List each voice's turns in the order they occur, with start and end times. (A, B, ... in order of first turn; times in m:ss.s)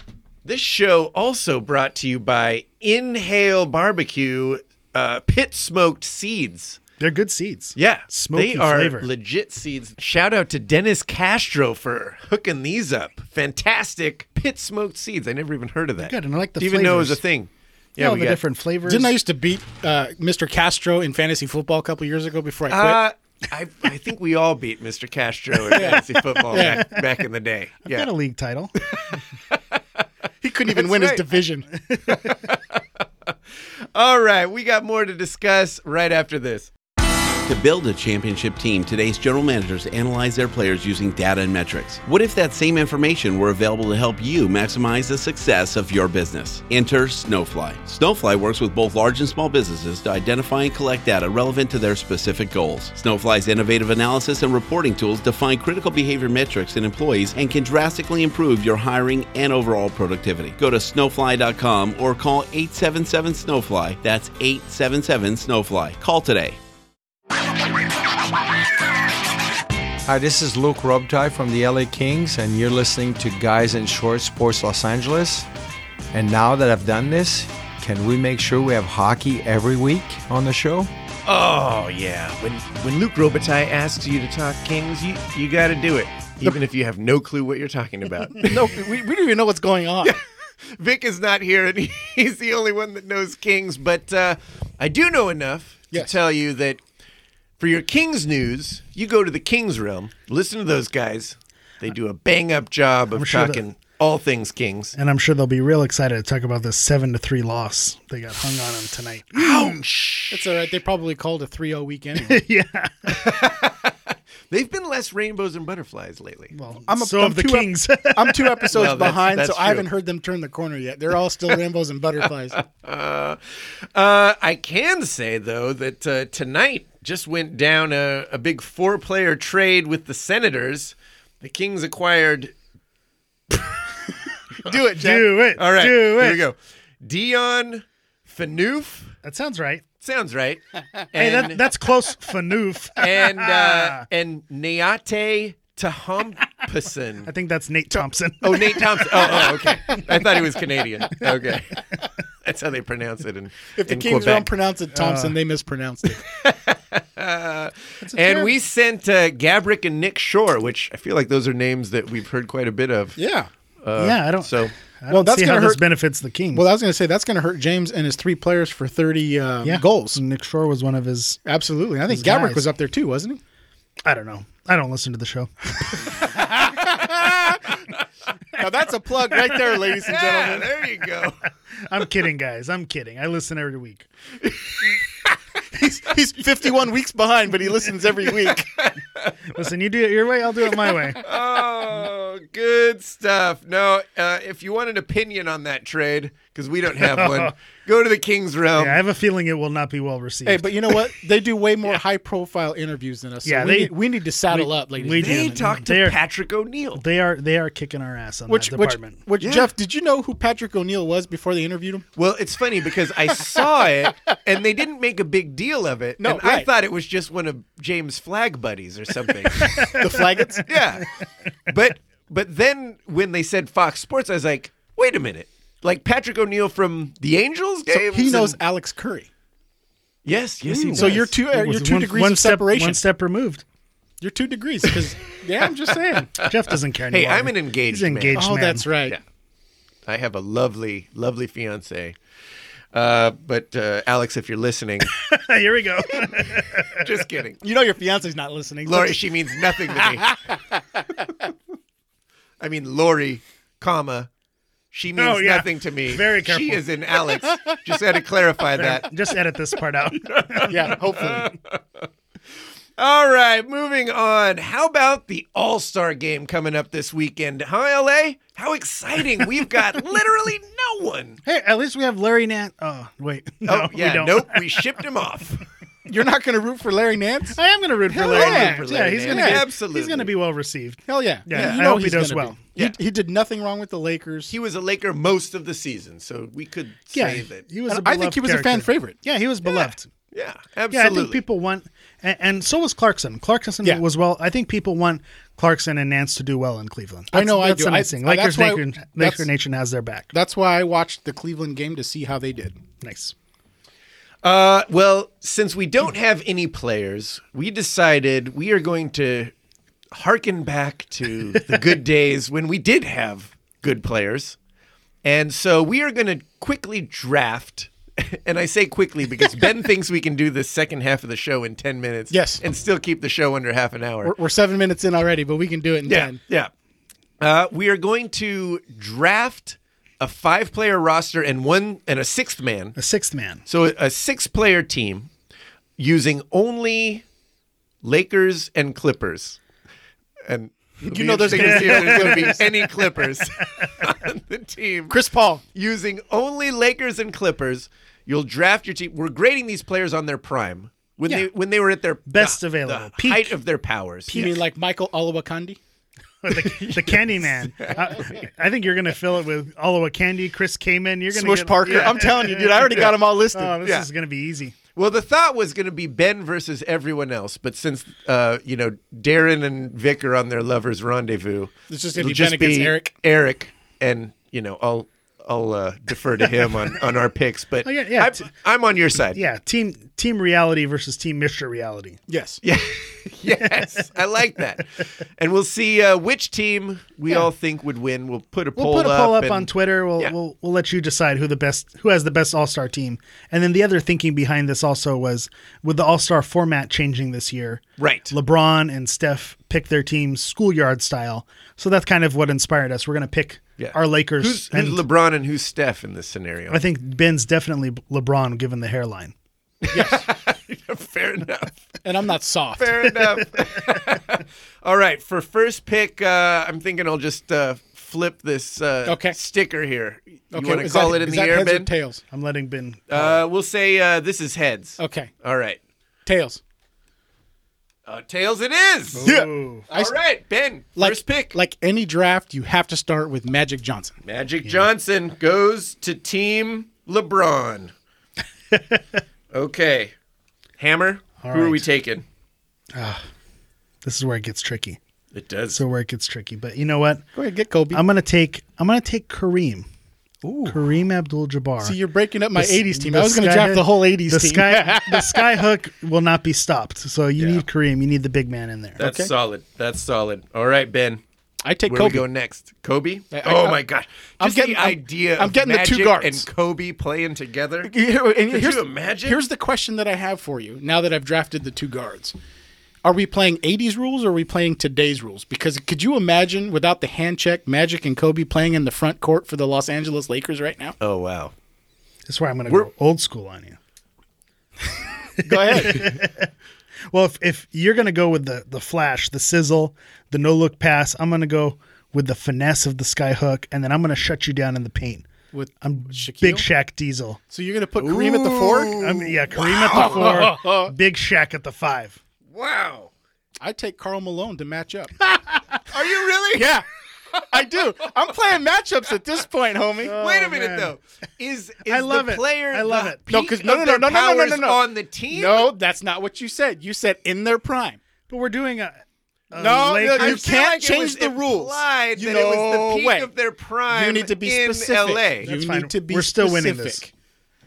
0:00.4-0:06.8 A
0:07.0-0:09.1 B
0:07.8-0:18.4 A
0:16.0-0:17.2 B
0:18.0-0:19.1 B
0:18.8-0:23.0 C
0:22.7-0:28.1 A
0:25.7-0:26.8 C
0:26.5-0:27.0 B
0:27.9-0:28.7 B
0:28.8-0:29.6 A
0:30.4-0:31.7 C
0:30.7-0:31.2 A
0:31.9-0:32.3 B
0:32.1-0:32.8 A
0:33.9-0:36.7 A
0:37.4-1:06.6 D
1:10.0-1:15.5 E
1:16.1-1:20.9 E
1:21.2-1:28.7 A
1:28.4-1:30.1 C
1:30.0-1:36.8 A
1:37.6-1:45.0 A
1:43.1-1:43.6 B
1:45.0-1:49.8 B
1:49.3-1:50.4 A
1:50.3-1:52.4 C
1:52.2-1:53.3 B
1:53.1-1:53.9 A
1:54.5-1:56.5 A
1:56.5-1:58.8 B
1:56.9-2:02.6 C
1:58.7-1:59.8 A
2:02.6-2:12.5 A
2:14.6-2:15.4 C
2:15.0-2:16.4 B
2:15.5-2:19.1 A
2:19.2-2:19.8 B
2:20.0-2:20.6 A
2:21.1-2:21.6 A
2:21.1-2:24.1 B
2:23.0-2:27.3 A
2:27.2-2:30.0 B
2:28.4-2:31.9 A
2:32.4-2:34.5 A
2:33.8-2:36.2 C
2:34.9-2:35.3 B
2:36.2-2:43.2 A
2:38.0-2:38.5 B
2:43.2-2:43.5 C
2:43.8-2:44.7 A
2:44.0-2:46.6 B
2:45.1-2:45.8 C
2:46.5-2:50.2 C
2:49.6-2:51.4 B
2:51.4-2:53.4 C
2:52.1-2:52.7 B
2:54.0-2:57.0 B
2:56.6-2:57.6 C
2:56.8-2:57.6 A
2:58.6-3:00.7 C
2:59.6-3:01.4 A
3:01.8-3:04.1 B
3:04.4-3:05.3 A
3:05.7-3:08.7 C
3:08.4-3:09.4 A
3:09.5-3:11.2 B
3:11.1-3:19.0 A
3:17.0-3:17.5 B
3:18.8-3:20.7 B
3:20.4-3:25.6 C
3:23.4-3:24.0 B
3:24.5-3:26.2 B
3:25.2-3:27.0 A
3:26.9-3:29.2 B
3:28.5-3:32.0 C
3:29.4-3:29.7 A
3:32.2-3:40.0 A
3:36.2-3:36.7 C
3:39.6-3:40.6 B
3:39.8-3:40.7 C
3:40.6-3:41.1 A
3:41.7-3:48.6 A
3:47.9-3:49.3 C
3:50.2-3:51.3 A
3:50.6-3:53.6 B
3:50.9-3:53.0 C
3:54.2-3:56.3 C
3:56.3-3:58.9 B
3:57.1-3:58.4 A
3:58.3-3:59.2 C
4:00.1-4:02.2 A
4:02.9-4:05.1 A
4:05.1-4:07.1 B
4:06.9-4:07.6 A
4:07.6-4:09.2 C
4:08.8-4:10.4 A
4:09.9-4:11.2 C
4:12.6-4:14.3 A
4:14.9-4:19.1 A
4:15.2-4:16.8 B
4:18.8-4:21.4 B
4:20.2-4:22.0 A
4:20.6-4:21.5 C
4:23.0-4:31.4 A
4:31.4-4:34.8 B
4:33.6-4:35.6 A
4:36.1-4:37.6 C
4:37.5-4:42.6 B
4:38.1-4:39.6 C
4:38.1-4:40.3 A
4:41.1-4:44.5 C
4:41.5-4:41.8 A
4:44.5-4:47.6 A
4:47.1-4:50.1 B
4:47.9-4:49.2 C
4:49.7-4:51.4 A
4:50.9-5:00.3 B
4:57.3-4:59.5 C
5:00.3-5:02.8 C
5:03.0-5:03.3 B
5:04.4-5:09.5 A
5:10.1-5:14.6 A
5:15.2-5:24.3 A
5:22.3-5:22.6 C
5:24.2-5:26.4 C
5:26.0-5:26.7 A
5:27.4-5:33.0 A
5:33.0-5:33.6 B
5:33.7-5:35.3 A
5:36.0-5:37.2 A
5:38.0-5:39.6 A
5:40.5-5:45.2 A
5:41.0-5:42.7 C
5:41.5-5:43.9 B
5:45.1-5:45.6 C
5:45.7-5:54.5 A
5:52.3-5:53.6 B
5:54.3-5:54.6 B
5:54.3-5:55.8 C
5:56.4-6:04.8 B
5:56.6-5:58.3 A
6:01.3-6:03.8 C
6:02.8-6:03.2 A
6:03.8-6:04.1 A
6:04.9-6:19.4 A
6:11.9-6:13.1 C
6:17.8-6:18.4 B
6:19.3-6:22.2 B
6:22.3-6:22.6 C
6:22.6-6:30.3 A
6:23.6-6:23.9 B
6:28.8-6:45.0 B
6:38.0-6:38.3 A
6:43.8-6:46.8 A
6:46.7-6:49.3 B
6:49.8-6:51.9 A
6:49.9-6:50.3 C
6:52.0-6:53.0 C
6:52.8-7:01.9 A
6:59.0-6:59.4 C
7:00.5-7:02.2 C
7:02.3-7:03.4 B
7:03.1-7:05.8 A
7:05.0-7:05.3 C
7:06.2-7:06.6 C
7:08.0-7:09.3 A
7:09.1-7:09.8 B
7:09.2-7:10.1 C
7:09.9-7:11.5 A
7:11.0-7:14.2 C
7:14.2-7:17.9 A
7:18.7-7:19.0 B
7:19.5-7:20.1 A
7:20.8-7:22.2 A
7:21.4-7:21.8 B
7:22.9-7:23.2 B
7:24.0-7:25.0 B
7:25.3-7:25.8 A
7:25.7-7:27.2 B
7:27.3-7:28.0 C
7:27.9-7:29.9 B
7:30.4-7:30.8 C
7:30.6-7:32.0 B
7:31.8-7:35.4 C
7:32.5-7:39.0 B
7:39.0-7:41.2 A
7:39.0-7:39.3 C
7:41.6-7:42.2 C
7:41.9-7:47.9 A
7:43.3-7:43.8 C
7:44.4-7:46.4 C
7:47.8-7:52.3 C
7:48.5-7:49.4 A
7:53.0-8:01.0 C
8:01.0-8:01.5 A
8:02.2-8:03.8 B
8:05.4-8:06.5 B
8:05.4-8:06.1 C
8:07.1-8:15.3 B
8:15.5-8:16.7 C
8:15.8-8:17.4 B
8:17.5-8:19.0 C
8:18.0-8:20.5 A
8:19.0-8:22.2 B
8:19.9-8:20.9 C
8:22.5-8:23.1 A
8:23.6-8:25.1 C
8:25.2-8:25.8 B
8:25.9-8:26.8 A
8:26.5-8:26.8 C
8:27.3-8:27.7 A
8:27.5-8:30.2 C
8:30.0-8:30.9 B
8:30.1-8:35.7 A
8:31.8-8:33.3 B
8:33.3-8:38.0 C
8:38.3-8:40.6 B
8:39.6-8:43.3 C
8:40.0-8:45.5 A
8:43.9-8:47.1 C
8:45.4-8:47.0 B